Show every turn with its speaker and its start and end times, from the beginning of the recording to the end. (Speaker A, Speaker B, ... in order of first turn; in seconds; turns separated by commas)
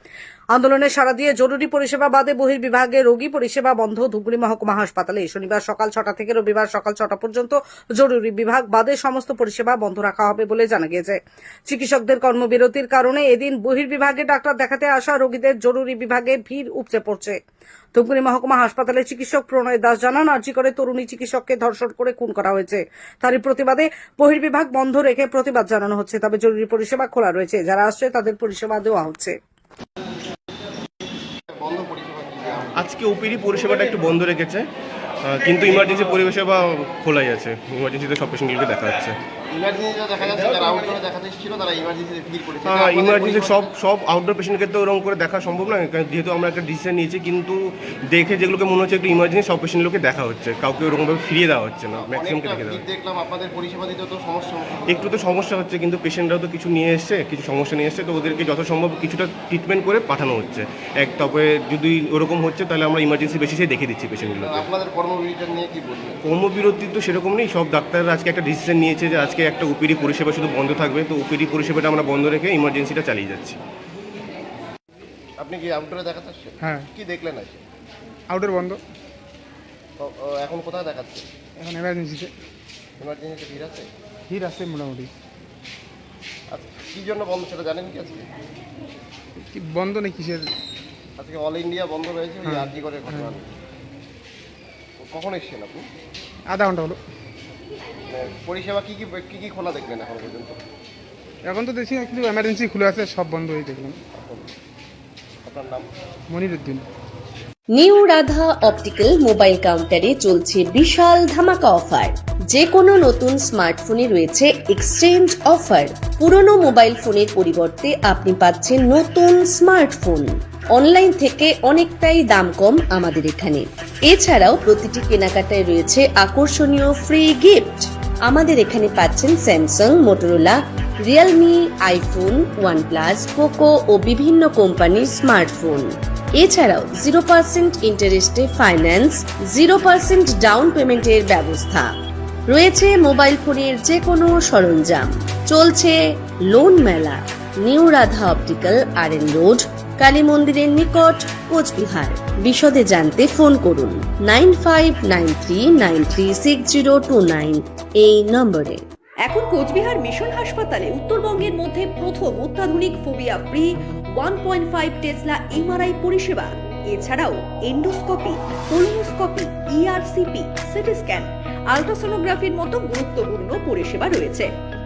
Speaker A: 0.5-17.4, Speaker A: 17.9-29.4, Speaker B: 31.5-32.9, Speaker C: 32.8-34.7, Speaker C: 35.2-39.2, Speaker B: 39.5-43.6, Speaker C: 42.6-47.5, Speaker C: 48.1-52.8, Speaker B: 51.9-55.1, Speaker C: 54.9-64.7, Speaker B: 64.4-66.2, Speaker C: 66.2-73.6, Speaker B: 75.4-77.6, Speaker D: 76.6-76.9, Speaker D: 78.3-78.8, Speaker B: 80.0-81.2, Speaker D: 81.6-82.3, Speaker B: 83.0-83.9, Speaker D: 84.3-85.1, Speaker B: 86.5-88.3, Speaker D: 89.4-90.5, Speaker B: 91.2-93.5, Speaker D: 92.4-93.3, Speaker B: 95.0-95.9, Speaker D: 96.5-97.0, Speaker B: 98.1-100.6, Speaker D: 101.5-104.0, Speaker B: 104.2-104.5, Speaker B: 105.4-105.9, Speaker D: 106.3-106.8, Speaker E: 107.7-141.9, Speaker E: 142.5-158.8, Speaker F: 159.3-163.7, Speaker F: 164.2-174.5